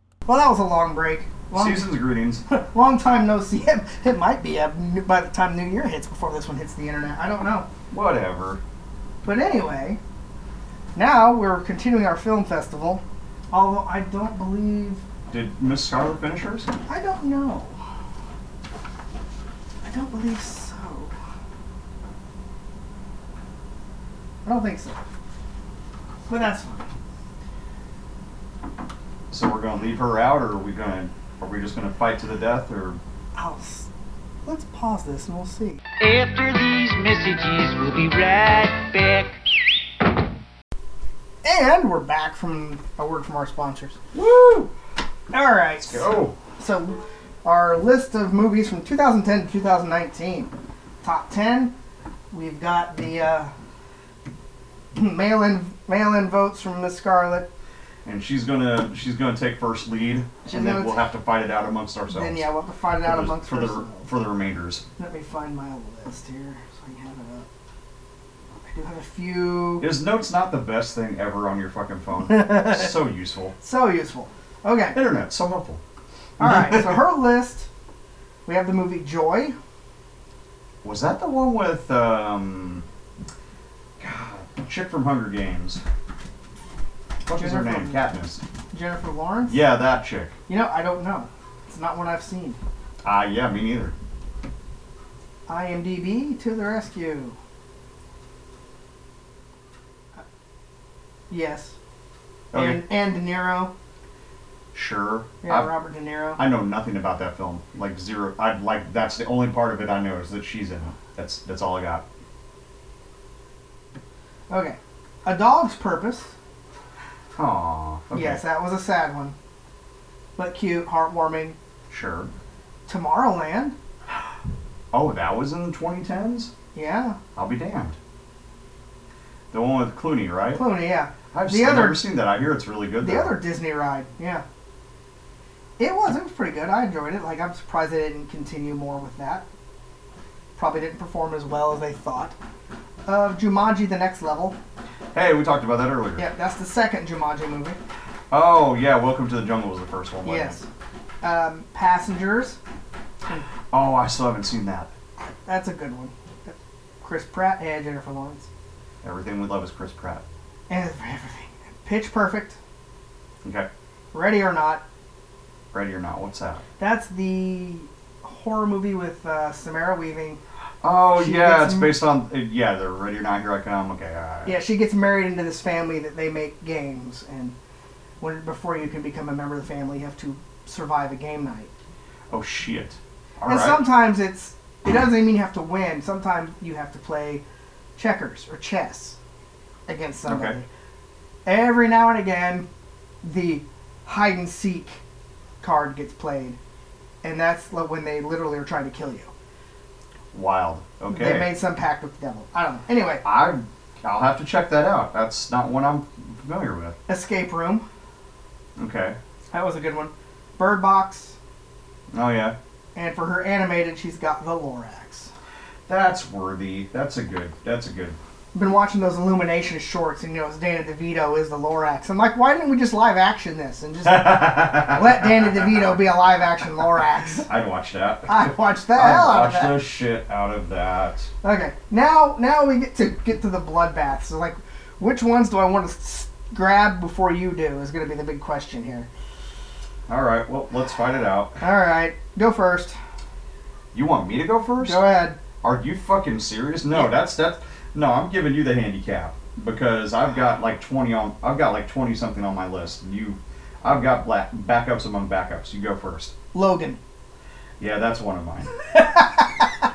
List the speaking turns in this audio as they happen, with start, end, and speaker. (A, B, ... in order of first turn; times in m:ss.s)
0:00.3-0:01.9 A
0:01.5-0:02.4 B
0:02.5-0:07.7 A
0:07.9-0:08.6 B
0:09.2-0:10.0 A
0:11.0-0:15.0 A
0:15.3-0:16.7 B
0:16.9-0:17.8 A
0:19.8-0:21.1 A
0:24.4-0:25.0 A
0:26.3-0:26.9 A
0:29.3-0:33.0 B
0:33.4-0:33.9 A
0:34.4-0:35.8 A
0:36.0-0:39.4 C
0:41.4-0:44.0 A
0:44.1-0:44.7 B
0:45.3-0:50.5 A
0:45.8-0:46.4 B
0:51.0-0:51.7 A
0:52.3-0:53.5 A
0:55.0-0:57.5 A
0:58.0-1:02.5 B
1:00.4-1:01.0 A
1:02.1-1:04.1 A
1:03.0-1:04.8 B
1:05.0-1:07.5 A
1:08.7-1:09.9 A
1:09.8-1:13.6 B
1:12.3-1:12.9 A
1:13.6-1:15.0 A
1:14.9-1:15.8 B
1:16.4-1:17.0 B
1:16.4-1:17.7 A
1:18.5-1:19.6 A
1:20.8-1:22.8 B
1:24.0-1:25.8 B
1:27.3-1:28.4 B
1:27.3-1:28.0 A
1:28.7-1:29.6 A
1:29.5-1:30.4 B
1:30.5-1:32.6 A
1:33.0-1:34.0 B
1:35.5-1:37.4 A
1:41.3-1:41.8 A
1:42.5-1:42.8 B
1:42.5-1:43.7 A
1:44.7-1:45.7 B
1:45.4-1:46.4 A
1:46.4-1:52.1 B
1:54.5-1:56.3 A
1:57.4-1:58.4 B
1:58.1-1:59.4 A
2:00.4-2:01.6 A
2:01.9-2:02.3 B
2:02.9-2:03.8 A
2:04.9-2:06.5 B
2:06.7-2:07.2 A
2:07.4-2:08.0 B
2:09.5-2:10.6 B
2:10.5-2:12.0 A
2:11.3-2:13.4 B
2:13.0-2:14.4 A
2:15.8-2:19.5 A
2:20.6-2:22.4 A
2:23.1-2:24.6 A
2:25.1-2:26.3 B
2:26.2-2:27.8 A
2:28.3-2:30.6 B
2:30.2-2:30.7 A
2:31.2-2:32.6 A
2:33.7-2:34.9 B
2:35.2-2:38.5 A
2:39.0-2:40.2 B
2:40.7-2:42.6 A
2:43.4-2:43.7 B
2:44.1-2:44.8 A
2:45.7-2:46.6 B
2:46.8-2:50.4 A
2:50.8-2:54.6 B
2:51.1-2:52.0 A
2:54.4-2:57.6 A
2:58.2-3:01.7 A
3:02.3-3:03.8 B
3:03.4-3:07.4 A
3:08.0-3:09.2 A
3:09.9-3:10.7 A
3:10.3-3:10.6 B
3:11.5-3:12.7 A
3:13.2-3:15.0 A
3:15.6-3:16.6 A
3:17.2-3:19.3 A
3:20.3-3:21.5 B
3:21.1-3:23.2 A
3:23.2-3:27.0 B
3:27.1-3:27.8 A
3:28.8-3:29.2 B
3:29.5-3:31.4 A
3:32.1-3:32.6 B
3:33.0-3:35.3 A
3:35.9-3:38.2 B
3:38.5-3:47.5 A
3:44.0-3:45.8 B
3:47.5-3:51.3 B
3:48.3-3:49.8 A
3:51.4-3:59.1 A
4:00.1-4:01.6 B
4:01.6-4:03.0 A
4:03.9-4:05.0 B
4:04.8-4:05.4 A
4:05.6-4:16.4 B
4:16.5-4:17.0 A
4:17.8-4:18.7 B
4:18.9-4:19.5 A